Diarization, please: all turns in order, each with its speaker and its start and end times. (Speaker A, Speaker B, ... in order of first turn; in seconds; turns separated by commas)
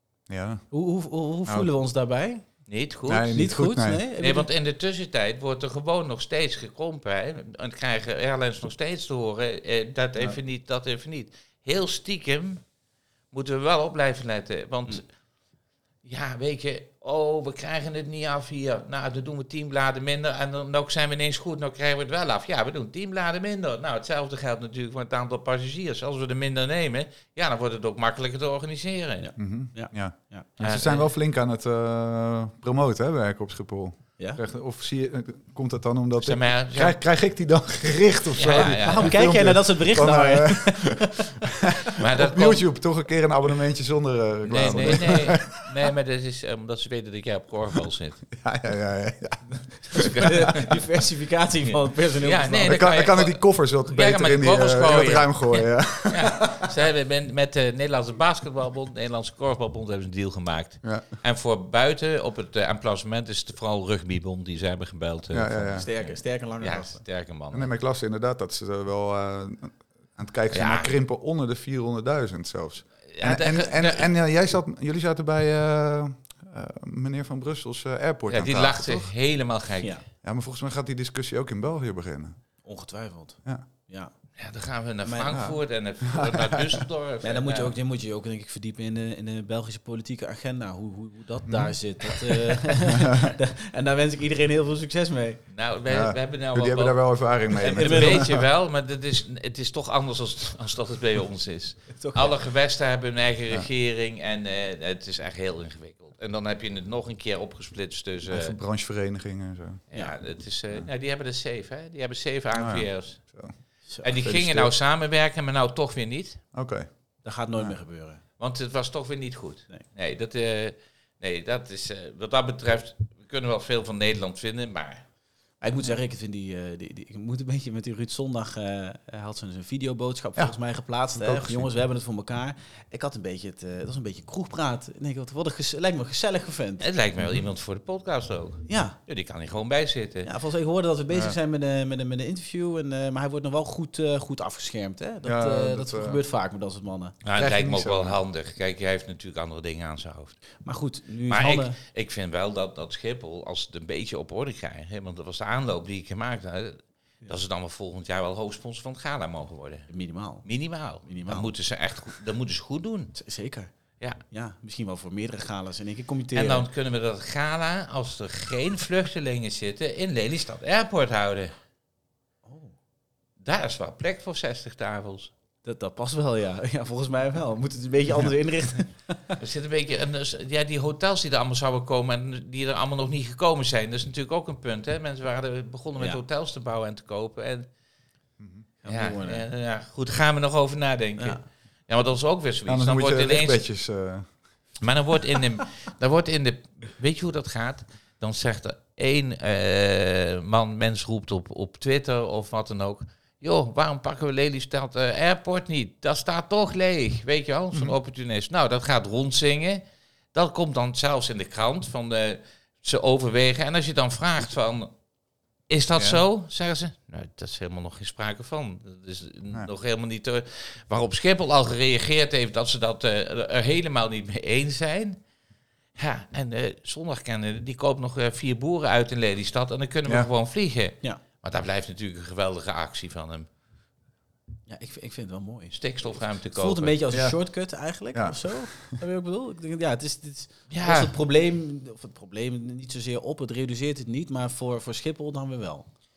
Speaker A: 0.3-0.6, Speaker B: 0.7-2.4, Speaker C: 2.7-3.4, Speaker A: 3.1-4.0, Speaker B: 3.3-4.5, Speaker C: 4.2-12.6, Speaker C: 13.3-15.1, Speaker C: 16.0-29.3, Speaker B: 29.2-30.5, Speaker A: 29.4-45.9, Speaker C: 30.6-31.1, Speaker C: 36.2-37.0, Speaker C: 38.3-39.2, Speaker B: 38.5-41.3, Speaker C: 42.0-42.7, Speaker C: 44.5-48.2, Speaker A: 48.3-50.2, Speaker C: 49.9-50.7, Speaker B: 49.9-52.8, Speaker C: 51.7-67.7, Speaker A: 52.6-56.7, Speaker A: 65.3-65.9, Speaker B: 65.8-67.0, Speaker A: 67.5-79.1, Speaker C: 70.5-70.9, Speaker C: 73.1-74.1, Speaker C: 78.3-80.0, Speaker A: 80.2-82.3, Speaker B: 82.6-84.1, Speaker C: 84.4-87.7, Speaker B: 85.0-85.4, Speaker A: 85.3-86.8, Speaker B: 87.2-95.4, Speaker A: 91.4-92.2, Speaker A: 92.9-93.3, Speaker C: 95.5-97.0, Speaker A: 95.9-98.4, Speaker C: 97.5-108.5, Speaker B: 97.6-98.4, Speaker B: 101.9-102.3, Speaker A: 108.3-109.8, Speaker C: 109.9-113.2, Speaker A: 112.5-113.5, Speaker C: 114.0-116.4, Speaker A: 114.1-114.7, Speaker A: 116.5-116.9, Speaker B: 117.2-118.2, Speaker C: 118.4-125.0, Speaker B: 125.6-136.8, Speaker A: 131.2-131.7, Speaker C: 136.8-140.3, Speaker A: 137.2-137.4, Speaker B: 138.7-138.9, Speaker B: 140.2-147.1, Speaker A: 141.1-141.4, Speaker A: 145.2-146.2, Speaker C: 147.2-150.4, Speaker A: 147.3-148.2, Speaker B: 150.6-151.8, Speaker C: 151.3-159.9, Speaker B: 159.9-160.4, Speaker C: 160.4-163.1, Speaker B: 161.1-161.5, Speaker B: 163.1-163.7, Speaker B: 164.3-166.7, Speaker C: 166.3-171.5, Speaker B: 172.4-172.7, Speaker C: 173.4-175.3, Speaker B: 175.6-179.4, Speaker C: 179.4-187.7, Speaker A: 188.4-188.7, Speaker B: 188.8-189.4, Speaker C: 188.9-193.6, Speaker A: 192.7-194.3, Speaker C: 194.8-209.8, Speaker C: 210.3-214.9, Speaker C: 215.7-225.2, Speaker A: 215.9-216.2, Speaker C: 225.9-233.5, Speaker B: 234.7-235.8, Speaker C: 235.7-237.0, Speaker B: 236.5-245.9, Speaker A: 237.1-237.4, Speaker A: 238.1-239.0, Speaker C: 240.7-241.1